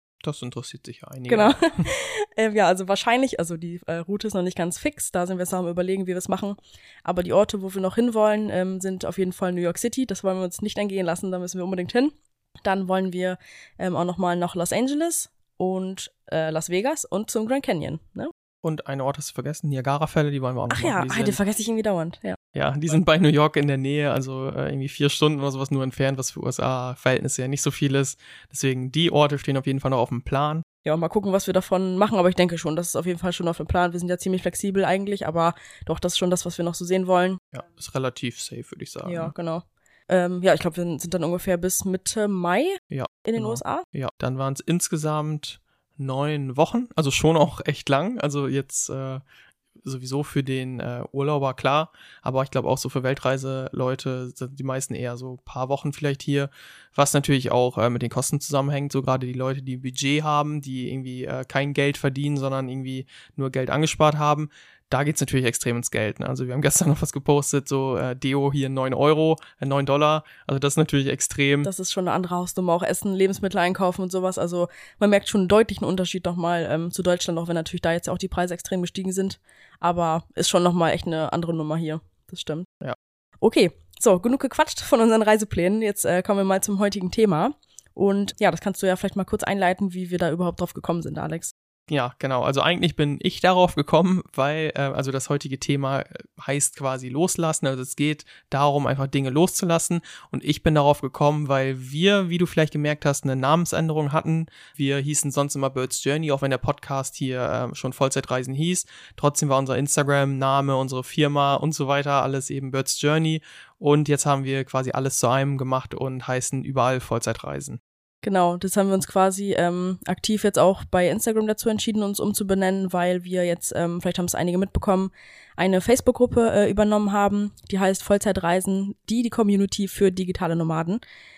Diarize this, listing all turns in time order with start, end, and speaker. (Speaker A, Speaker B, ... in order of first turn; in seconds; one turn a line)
Speaker A: 0.2-1.9
Speaker B: 1.3-18.3
Speaker A: 18.6-21.4
Speaker B: 20.7-22.4
Speaker A: 22.5-30.6
Speaker B: 30.8-37.4
Speaker A: 37.5-39.3
Speaker B: 39.0-43.8
Speaker A: 42.9-49.2
Speaker A: 49.8-71.7
Speaker B: 71.6-82.7
Speaker B: 83.4-91.5
Speaker A: 91.9-117.8
Speaker B: 118.2-131.0